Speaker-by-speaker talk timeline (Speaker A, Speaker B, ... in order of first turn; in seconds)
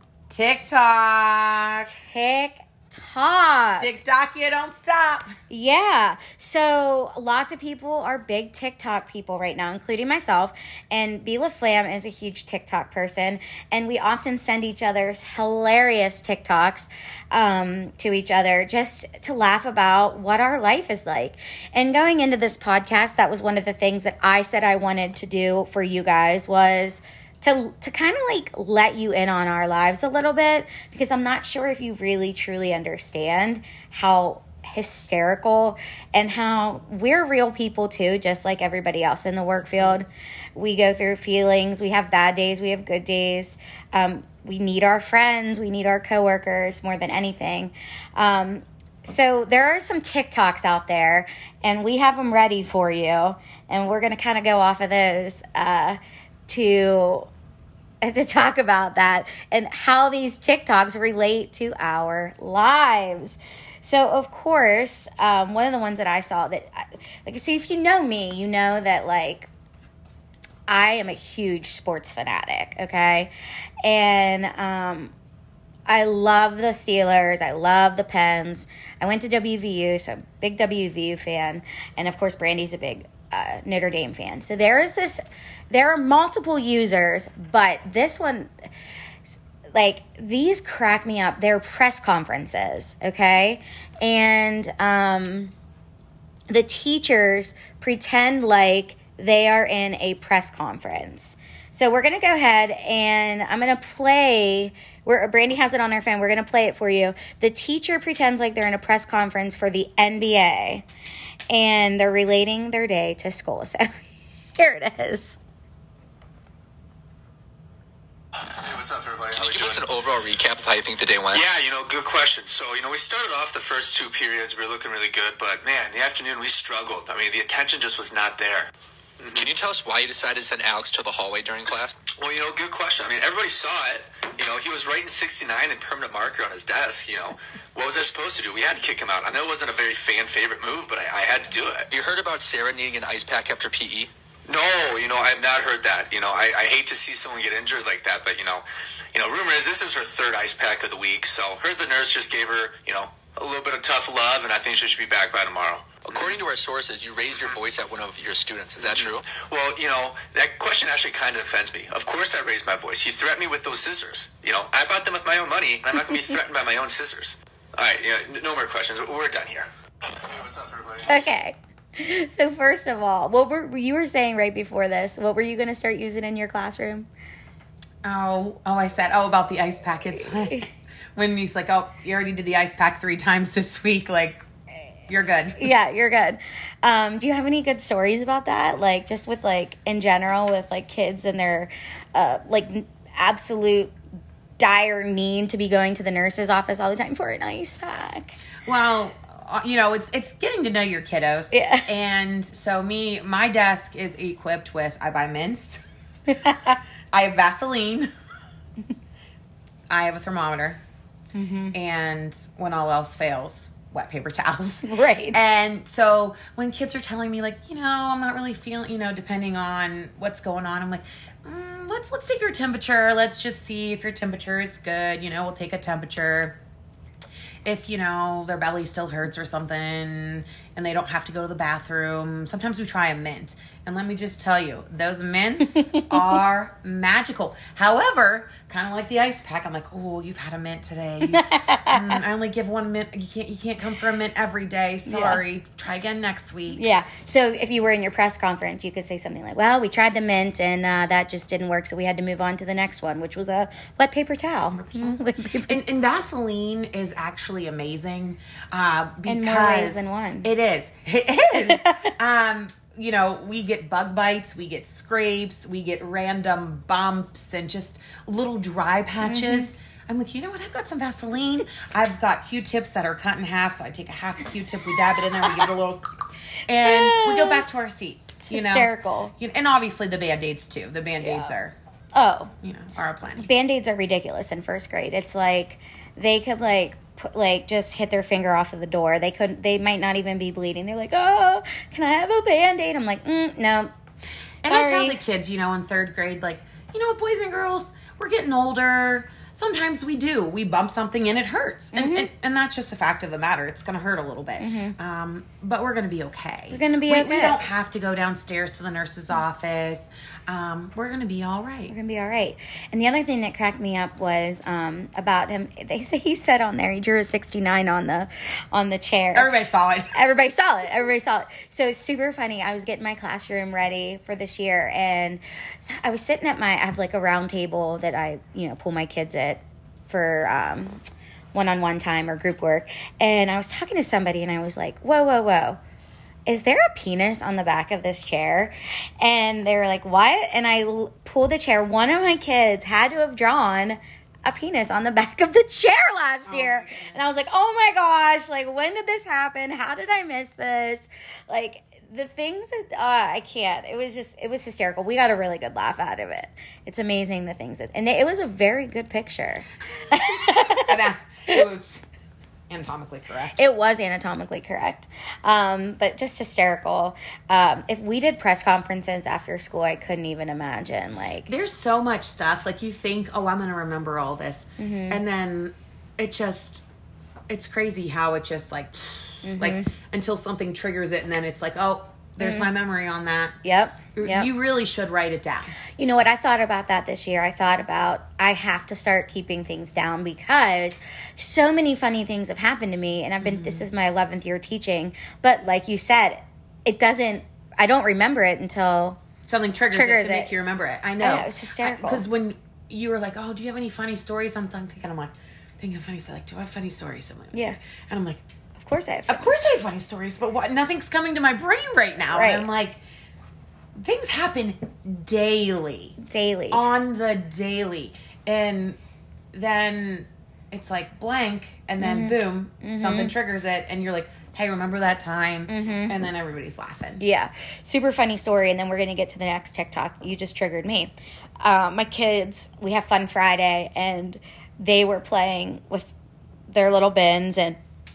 Speaker A: 0.3-1.9, 3.8-5.3, 39.6-40.1, 178.0-184.4, 185.1-185.7, 198.7-205.8, 207.1-208.1, 209.9-210.8, 211.7-226.6, 227.6-246.8, 254.7-276.1, 276.7-281.8, 282.6-283.5, 294.6-311.9, 319.3-320.1, 346.5-347.2, 360.1-362.0, 362.7-363.7, 371.5-376.9, 377.5-379.1, 379.6-383.6, 384.2-385.8, 393.4-393.9, 399.5-408.4, 409.3-413.0, 413.9-416.2, 416.7-419.0, 419.5-427.2
Speaker B: 1.9-3.9, 5.5-57.3, 58.0-69.5, 70.7-73.3, 73.8-75.1, 75.9-88.7, 89.3-95.5, 96.5-110.8, 111.5-114.0, 114.6-115.4, 171.0-177.1, 180.3-180.7, 185.6-193.9, 194.6-198.3, 201.5-201.9, 206.3-206.8, 211.3-211.8, 214.8-215.4, 241.3-242.2, 245.1-245.4, 246.7-255.8, 259.3-260.5, 261.6-262.1, 269.2-269.7, 276.8-277.6, 278.4-279.3, 281.2-281.5, 282.1-282.5, 283.4-293.9, 294.7-295.2, 301.9-302.3, 304.6-305.0, 306.7-307.6, 311.9-319.5, 320.1-331.0, 331.5-335.8, 336.5-361.0, 363.6-371.5, 374.8-375.2, 379.4-379.9, 382.4-382.7, 383.6-384.5, 386.0-399.2, 399.9-400.5, 401.2-402.3, 407.5-407.8, 408.8-409.6, 412.3-412.7, 416.2-416.8, 422.0-423.3, 425.7-426.2, 427.2-436.1, 436.7-437.8
Speaker C: 118.4-119.9, 121.3-128.7, 129.2-129.5, 132.2-141.9, 144.5-156.2, 158.8-171.2
Speaker D: 119.3-121.5, 129.3-131.9, 141.9-144.1, 156.1-159.3